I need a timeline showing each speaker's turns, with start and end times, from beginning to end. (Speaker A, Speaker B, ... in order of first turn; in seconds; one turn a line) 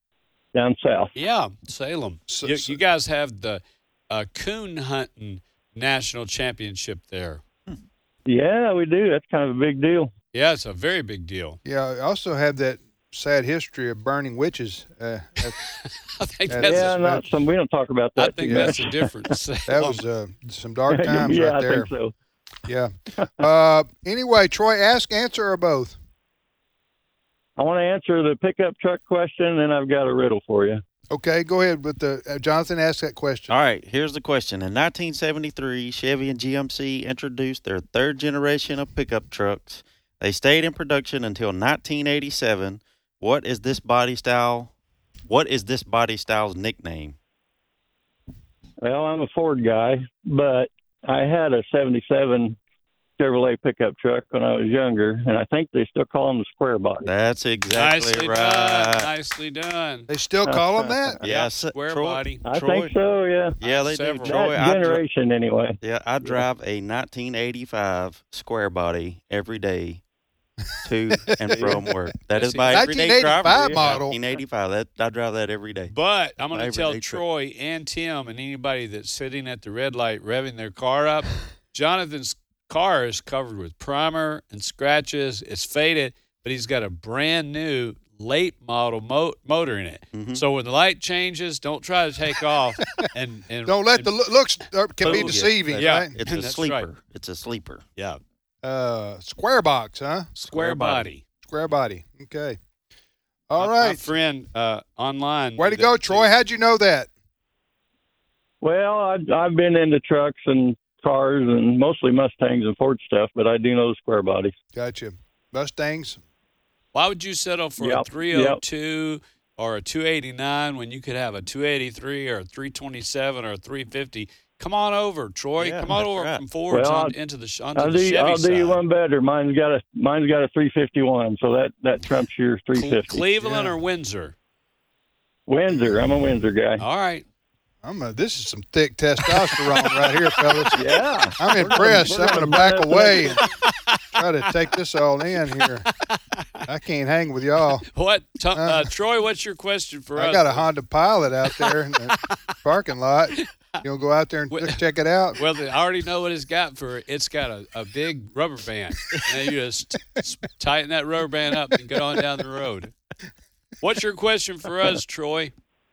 Speaker A: 0.5-1.1
Speaker B: 1.1-7.4
Speaker C: 2.3-2.8
Speaker A: 8.2-10.1
Speaker B: 10.3-11.6
Speaker C: 11.6-15.6
Speaker B: 16.1-17.0
Speaker C: 16.5-17.2
Speaker A: 16.6-19.3
Speaker B: 18.2-20.0
Speaker C: 18.5-18.7
Speaker C: 19.7-21.9
Speaker A: 20.9-22.1
Speaker C: 22.7-26.0
Speaker A: 27.6-30.8
Speaker C: 31.1-33.5
Speaker D: 33.5-44.7
Speaker D: 45.3-47.1
Speaker A: 48.8-52.6
Speaker A: 53.2-57.1
Speaker D: 57.0-59.1
Speaker B: 57.7-60.1
Speaker C: 60.1-61.2
Speaker A: 60.5-61.2
Speaker D: 61.2-62.9
Speaker B: 61.2-62.4
Speaker A: 62.4-63.6
Speaker D: 63.6-65.0
Speaker B: 63.6-64.6
Speaker A: 64.2-66.4
Speaker D: 65.8-70.0
Speaker D: 70.8-75.9
Speaker C: 71.3-71.8
Speaker A: 71.5-71.8
Speaker B: 72.3-73.2
Speaker C: 72.7-74.2
Speaker B: 75.9-94.1
Speaker D: 76.5-77.2
Speaker D: 90.1-90.4
Speaker C: 93.7-96.2
Speaker B: 95.0-96.9
Speaker D: 95.0-97.8
Speaker C: 98.6-100.3
Speaker B: 100.4-101.2
Speaker D: 100.4-101.1
Speaker C: 101.4-102.6
Speaker C: 103.5-104.0
Speaker B: 103.6-106.3
Speaker C: 105.6-107.1
Speaker A: 108.6-114.5
Speaker C: 114.7-116.2
Speaker B: 116.9-128.8
Speaker A: 117.8-118.6
Speaker D: 125.6-126.4
Speaker A: 126.7-127.1
Speaker A: 127.8-133.3
Speaker B: 132.7-134.3
Speaker C: 133.4-133.7
Speaker A: 135.5-136.8
Speaker B: 136.8-137.2
Speaker C: 137.8-140.8
Speaker B: 139.2-141.0
Speaker A: 140.7-143.4
Speaker C: 141.4-143.5
Speaker B: 143.4-144.4
Speaker C: 144.1-145.9
Speaker B: 145.6-146.7
Speaker C: 146.7-147.8
Speaker B: 147.8-150.7
Speaker C: 148.5-148.9
Speaker C: 150.2-155.4
Speaker B: 151.4-152.3
Speaker B: 153.4-153.8
Speaker B: 154.5-154.8
Speaker B: 155.3-162.9
Speaker B: 163.8-165.5